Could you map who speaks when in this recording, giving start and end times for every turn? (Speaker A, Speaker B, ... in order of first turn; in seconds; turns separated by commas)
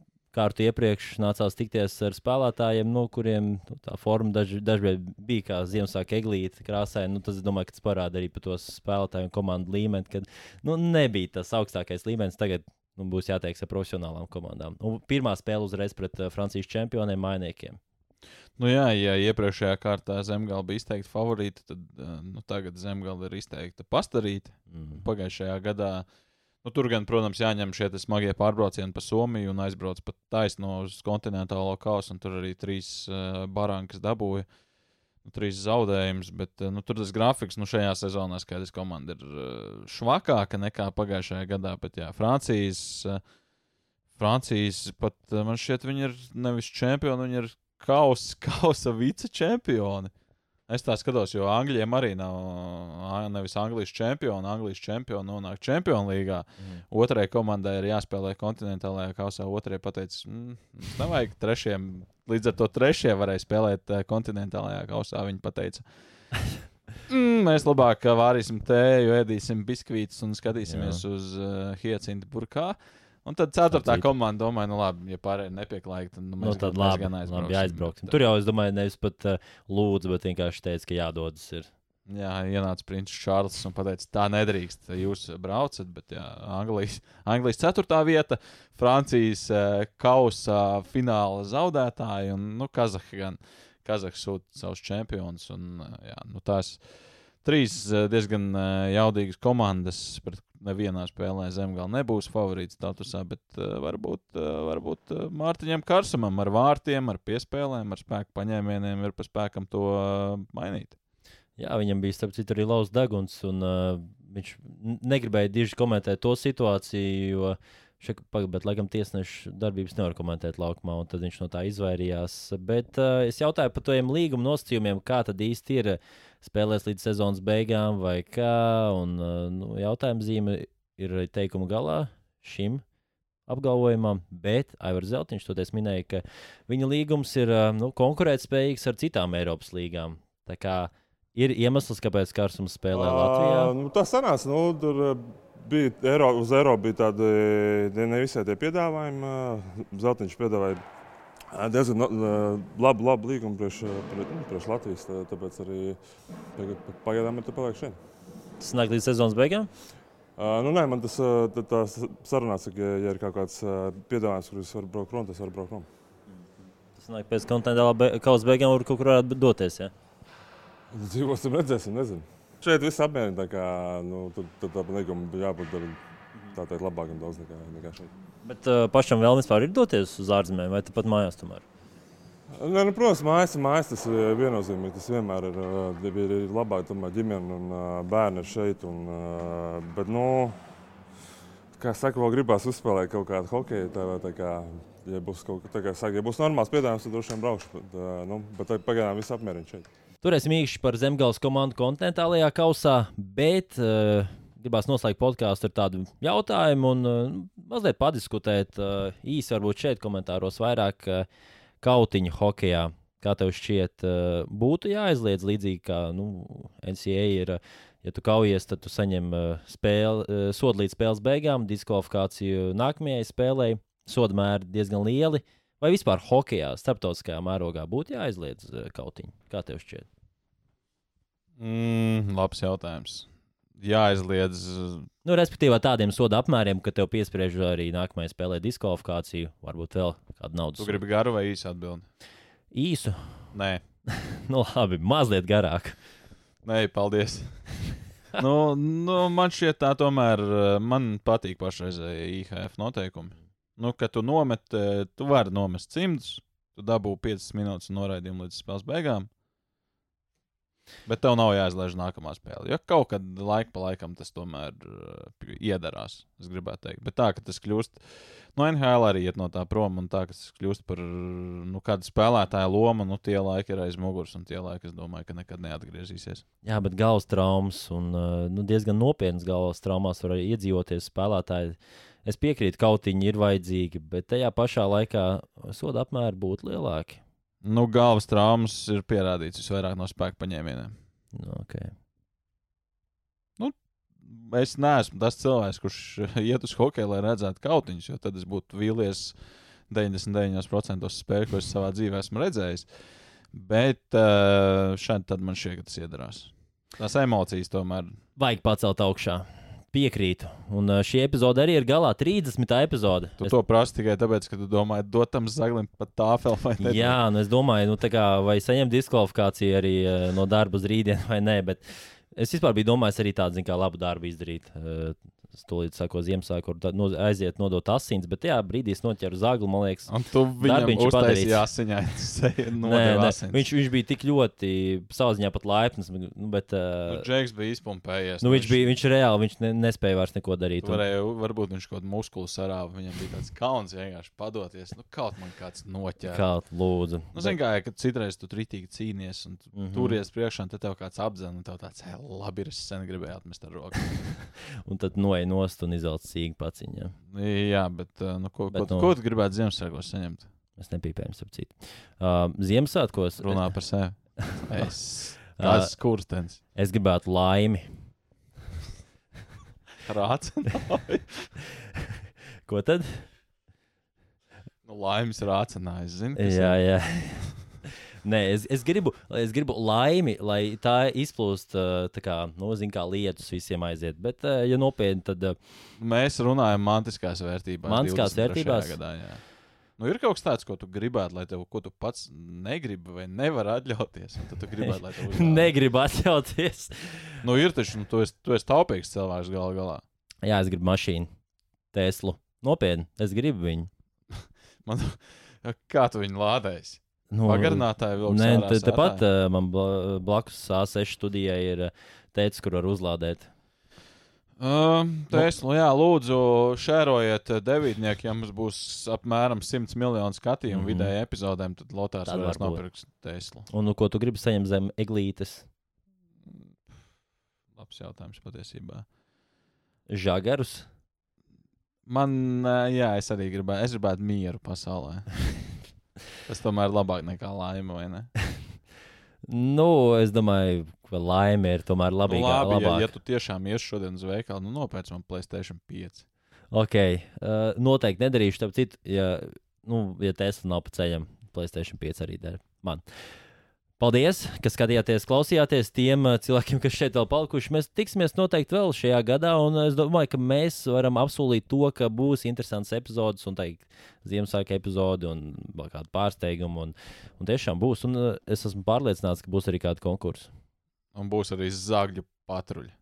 Speaker A: 0.3-17.8, Speaker B: 18.6-26.1, Speaker A: 24.7-25.0, Speaker B: 26.6-34.5, Speaker B: 35.2-43.2, Speaker B: 44.2-50.1, Speaker B: 50.7-65.8, Speaker B: 67.1-78.2, Speaker A: 70.7-71.0, Speaker A: 73.7-74.1, Speaker A: 76.4-81.7, Speaker B: 82.1-96.8, Speaker B: 97.4-111.0, Speaker A: 111.6-132.8, Speaker A: 133.5-143.7, Speaker C: 142.9-150.8, Speaker C: 151.5-156.0, Speaker C: 156.6-158.0, Speaker A: 158.6-159.7, Speaker C: 160.4-165.9, Speaker A: 166.9-169.9, Speaker C: 170.9-176.0, Speaker C: 176.5-178.1, Speaker A: 178.4-181.7, Speaker C: 182.5-190.6, Speaker C: 191.8-199.9, Speaker A: 200.2-211.3, Speaker A: 211.8-230.1, Speaker B: 231.6-235.1, Speaker A: 235.2-241.0, Speaker B: 240.8-242.1, Speaker A: 242.7-243.5, Speaker B: 243.5-243.8, Speaker A: 244.1-246.0, Speaker B: 246.6-247.7, Speaker B: 248.3-259.3, Speaker B: 261.1-276.4, Speaker A: 276.6-287.2, Speaker B: 287.6-290.9, Speaker A: 291.4-291.9, Speaker B: 293.6-299.4, Speaker B: 299.9-302.9, Speaker B: 303.5-308.2, Speaker A: 308.4-313.5, Speaker B: 313.4-317.2, Speaker A: 316.8-331.6, Speaker B: 330.1-333.7, Speaker A: 332.8-337.3, Speaker B: 337.1-338.9, Speaker A: 338.4-341.0, Speaker B: 340.8-346.5, Speaker A: 346.3-347.6, Speaker B: 347.3-354.4, Speaker A: 349.7-350.2, Speaker A: 354.8-357.2, Speaker B: 357.3-360.5, Speaker A: 358.7-359.1, Speaker A: 360.8-363.7, Speaker B: 363.4-366.6, Speaker A: 364.4-364.9, Speaker A: 365.6-365.9, Speaker A: 366.7-368.0, Speaker B: 370.1-371.5, Speaker A: 372.7-373.3, Speaker B: 374.8-376.8, Speaker A: 376.4-385.6, Speaker B: 386.0-389.4, Speaker A: 387.9-389.0, Speaker B: 390.0-395.7, Speaker A: 394.8-397.4, Speaker B: 397.4-400.0, Speaker A: 400.4-401.3, Speaker A: 401.9-403.9, Speaker B: 404.3-409.2, Speaker A: 407.3-413.5, Speaker B: 414.6-423.7, Speaker A: 420.7-421.1, Speaker A: 422.3-422.8, Speaker A: 423.7-425.7, Speaker B: 426.5-426.7, Speaker B: 427.8-429.1, Speaker A: 430.1-430.9, Speaker B: 432.1-435.7, Speaker B: 436.4-438.3, Speaker A: 439.5-443.1, Speaker B: 442.3-446.3, Speaker A: 446.7-453.0, Speaker A: 454.0-470.5, Speaker B: 471.1-472.9